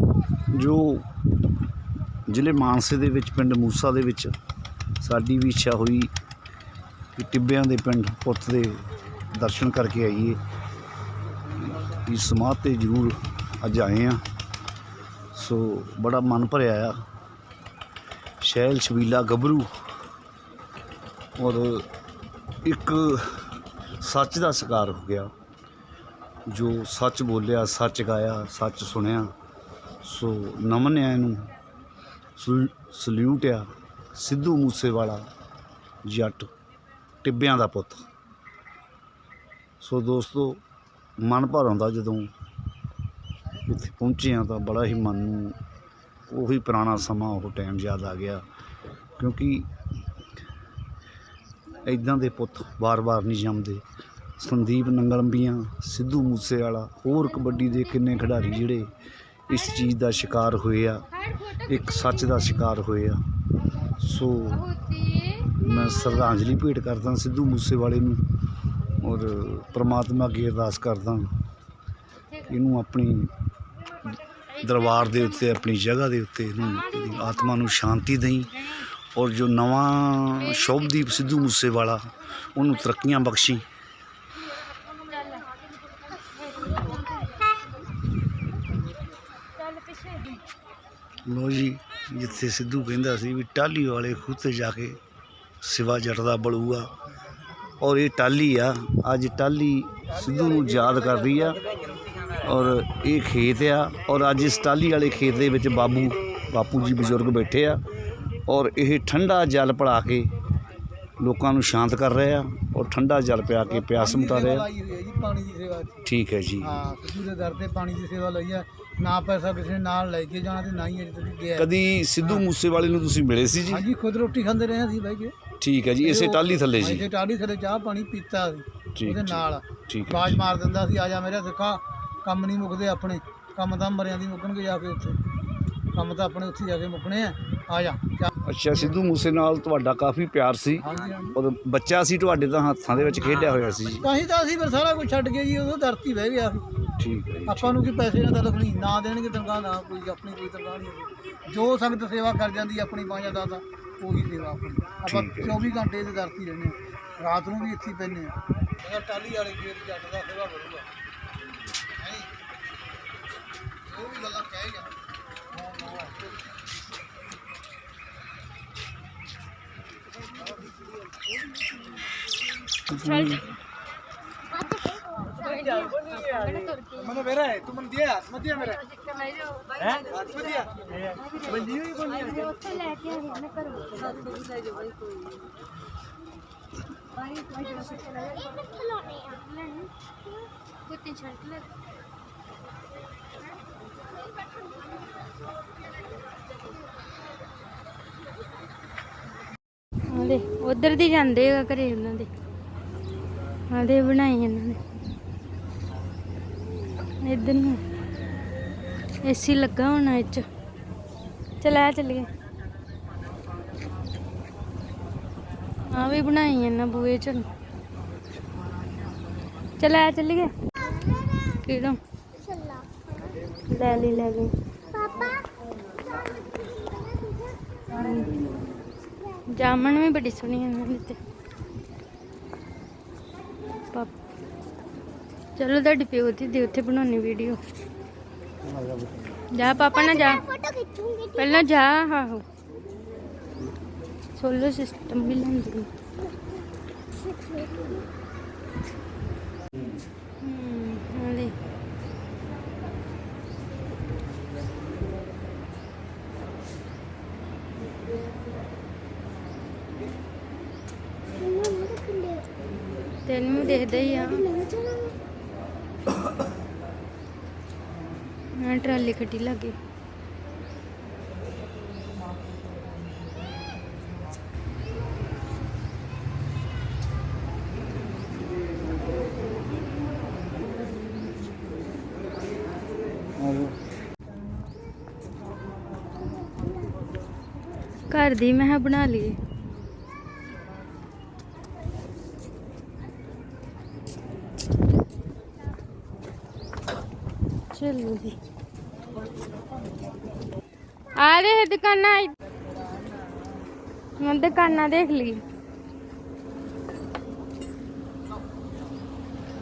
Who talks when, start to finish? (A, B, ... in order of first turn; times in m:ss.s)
0:00.5-0:01.1 A
0:02.3-0:04.3 A
0:05.0-0:06.1 A
0:07.2-0:10.4 A
0:11.5-0:14.2 A
0:15.3-0:17.0 A
0:18.4-0:19.7 A
0:21.4-0:21.9 A
0:22.6-0:23.4 A
0:24.0-0:25.3 A
0:26.5-0:29.3 A
0:30.0-0:31.4 A
0:32.4-0:35.2 A
0:36.0-0:36.5 A
0:37.2-0:38.0 A
0:39.8-0:40.6 A
0:41.2-0:42.3 A
0:43.6-0:45.6 A
0:46.3-0:48.4 A
0:49.2-0:49.7 A
0:51.8-0:53.8 A
0:54.4-0:58.9 A
0:59.5-1:03.2 A
1:03.9-1:04.7 A
1:04.7-1:05.4 B
1:05.4-1:08.2 A
1:09.0-1:11.3 A
1:12.4-1:13.3 A
1:14.5-1:23.6 A
1:14.6-1:15.3 B
1:16.7-1:17.3 B
1:20.5-1:20.9 B
1:29.8-1:30.2 B
1:31.2-1:35.0 A
1:35.6-1:36.9 A
1:37.8-1:41.6 A
1:42.4-1:47.8 A
1:48.5-1:50.3 A
1:51.2-1:54.7 A
1:53.7-1:56.0 C
1:56.0-1:56.7 A
1:56.6-2:01.7 C
2:01.6-2:03.8 A
2:03.7-2:05.3 C
2:05.6-2:07.1 A
2:06.0-2:15.2 C
2:08.9-2:10.4 A
2:15.9-2:18.3 C
2:18.4-2:24.1 A
2:20.8-2:21.4 C
2:24.0-2:26.6 C
2:27.0-2:27.8 A
2:27.5-2:40.9 C
2:35.1-2:35.6 A
2:42.0-2:42.3 C
2:43.8-2:44.9 C
2:52.9-2:53.5 A
2:53.0-2:53.4 B
2:55.2-2:57.5 B
2:59.3-2:59.6 B
3:01.5-3:04.1 B
3:08.3-3:09.9 B
3:10.9-3:11.7 B
3:20.1-3:22.3 B
3:23.7-3:24.8 B
3:27.2-3:27.8 B
3:29.2-3:30.5 B
3:31.6-3:32.3 B
3:35.9-3:37.5 B
3:39.8-3:40.5 B
3:41.4-3:42.0 B
3:43.7-3:44.5 B
3:47.9-3:48.4 B
3:49.5-3:51.2 B
3:55.6-3:57.6 B
3:59.5-4:02.4 B
4:04.4-4:05.9 B
4:10.4-4:11.6 B
4:23.2-4:24.6 B
4:28.6-4:29.8 B
4:48.1-4:49.4 B
4:57.7-4:58.4 B
5:01.2-5:02.4 B
5:04.2-5:05.4 B